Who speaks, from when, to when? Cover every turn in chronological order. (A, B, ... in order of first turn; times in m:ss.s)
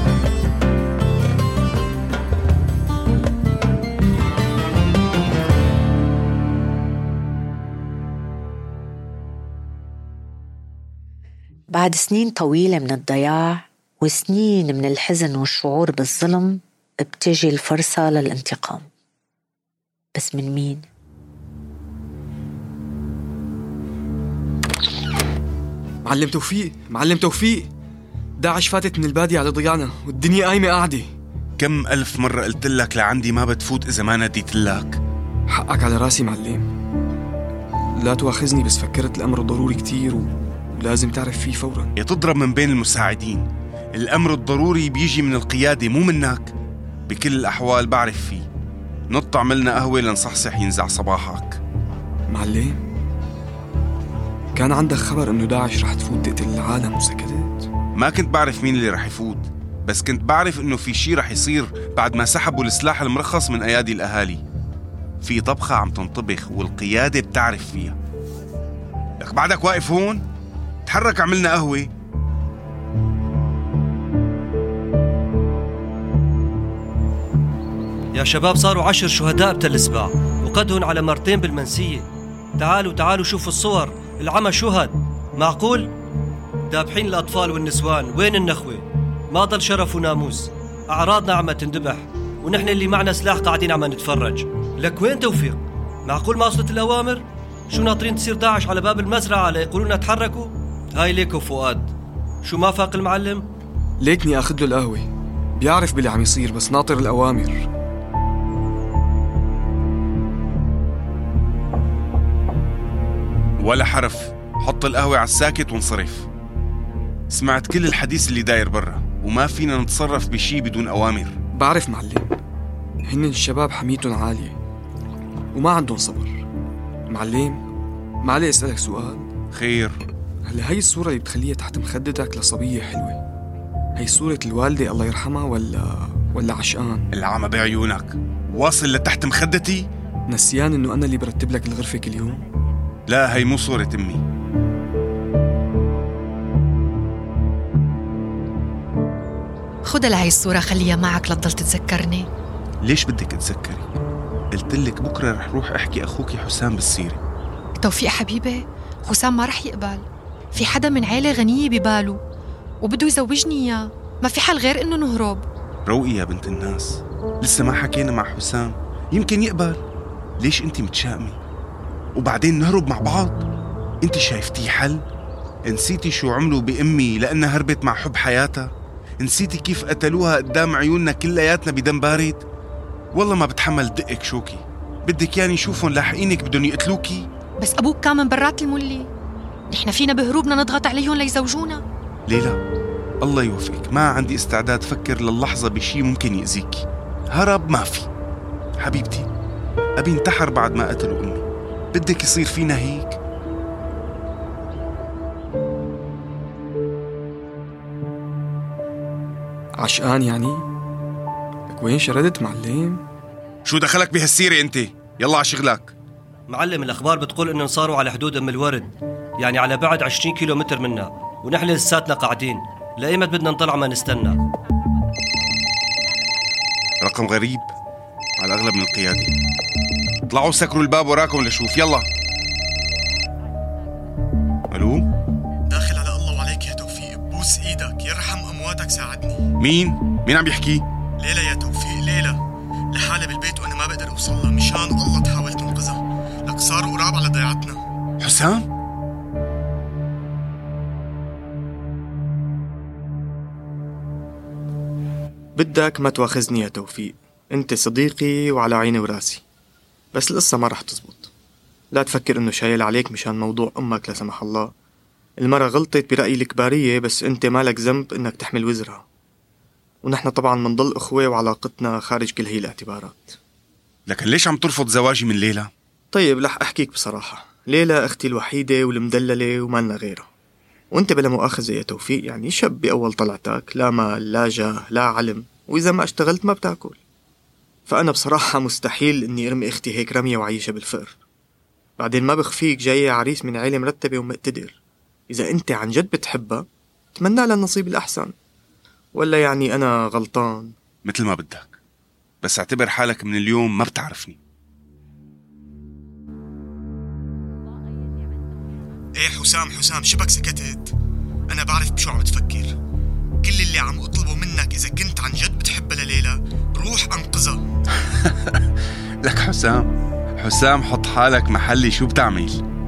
0:11.7-0:18.9 A
0:20.2-0:20.9 A
0:26.0-0:27.7 B
0:28.4-0:31.1 B
0:31.6-0:35.0 C
0:35.5-0:36.7 B
0:38.0-0:41.9 B
0:42.0-0:46.5 C
0:47.1-0:48.4 C
0:49.1-0:51.6 C
0:52.3-0:52.8 B
0:54.6-0:57.6 B
0:58.0-1:04.4 C
1:05.2-1:08.0 C
1:09.2-1:10.2 C
1:10.9-1:11.9 C
1:18.2-1:22.1 D
1:22.6-1:25.9 D
1:26.7-1:43.5 D
1:44.0-1:47.7 B
1:53.6-1:56.3 C
1:57.3-2:01.4 C
2:01.6-2:02.4 B
2:03.0-2:04.6 B
2:05.5-2:06.4 B
2:07.1-2:07.6 B
2:08.2-2:09.3 B
2:09.5-2:10.0 C
2:10.4-2:13.2 B
2:14.0-2:17.1 B
2:17.1-2:19.9 C
2:20.3-2:22.4 B
2:23.1-2:24.2 C
2:29.8-2:32.3 E
2:32.8-2:33.9 C
2:34.5-2:37.2 C
2:37.8-2:42.2 E
2:42.8-2:45.4 E
2:45.9-2:49.8 C
2:50.4-2:51.4 C
2:52.2-2:53.4 C
2:54.0-2:55.0 C
2:55.7-3:02.4 C
3:03.1-3:07.2 C
3:07.6-3:09.1 E
3:09.7-3:11.8 E
3:12.3-3:12.6 C
3:13.2-3:18.1 C
3:18.8-3:19.3 C
3:20.0-3:23.2 C
3:29.8-3:30.7 B
3:31.7-3:33.0 B
3:33.7-3:35.9 C
3:36.5-3:44.4 D
3:47.0-3:47.7 C
3:48.4-3:49.3 C
3:50.3-3:52.1 C
3:54.7-3:55.1 C
3:55.7-3:59.5 F
3:59.6-4:00.9 C
4:01.2-4:02.4 F
4:02.9-4:07.8 F
4:08.2-4:08.7 C
4:15.6-4:19.4 F
4:20.1-4:21.3 F
4:21.9-4:24.7 F
4:25.4-4:29.0 F
4:30.0-4:33.4 F
4:34.1-4:35.7 C
4:36.1-4:40.3 F
4:40.9-4:47.0 F
4:47.9-4:51.2 F
4:52.0-4:54.8 F
4:55.3-4:58.3 F
4:59.1-5:00.7 F
5:01.0-5:01.8 C
5:02.4-5:04.4 C
5:09.2-5:10.9 F
5:11.5-5:12.8 F
5:13.4-5:17.6 F
5:18.1-5:18.6 C
5:19.2-5:22.6 C